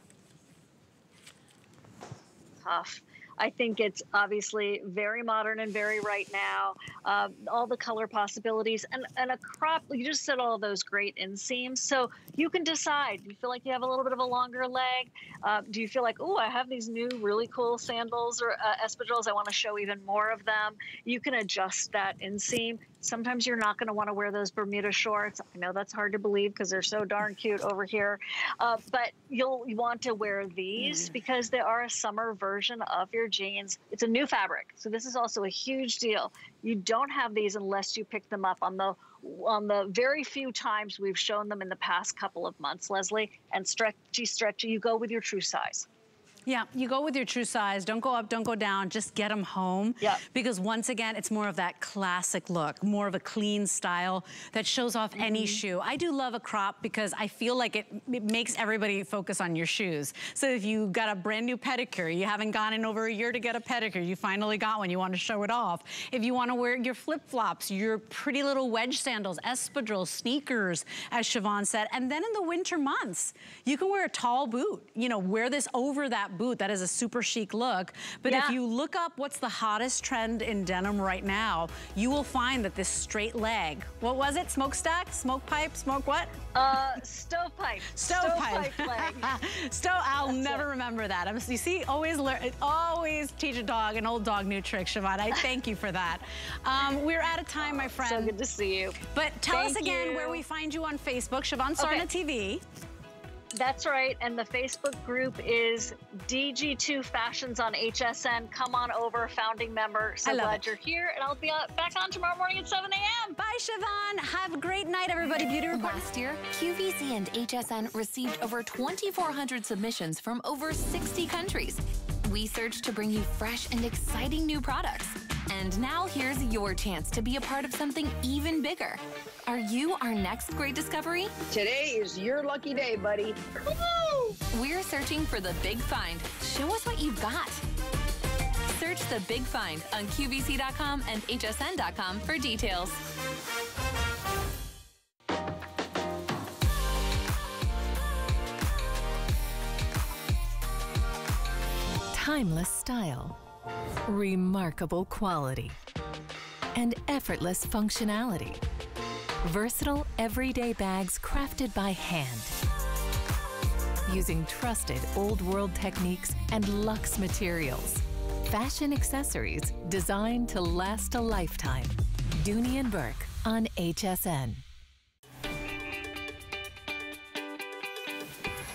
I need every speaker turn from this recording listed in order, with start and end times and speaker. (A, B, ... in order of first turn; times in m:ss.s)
0:02.6-0:45.9 A
0:46.5-1:26.3 B
0:55.2-0:55.6 A
1:18.3-1:18.6 A
1:26.5-1:29.4 A
1:27.9-1:38.3 B
1:30.2-1:30.7 A
1:37.6-1:40.4 A
1:39.1-1:42.6 B
1:41.8-1:42.1 A
1:43.5-1:53.4 A
1:50.2-1:50.7 B
1:53.4-1:56.1 B
1:55.7-2:11.4 C
2:11.5-2:14.4 D
2:14.5-2:17.6 C
2:18.7-2:23.0 C
2:32.1-2:33.4 C
2:34.0-2:35.8 C
2:36.7-2:38.6 C
2:39.4-2:42.6 C
2:44.1-2:54.6 C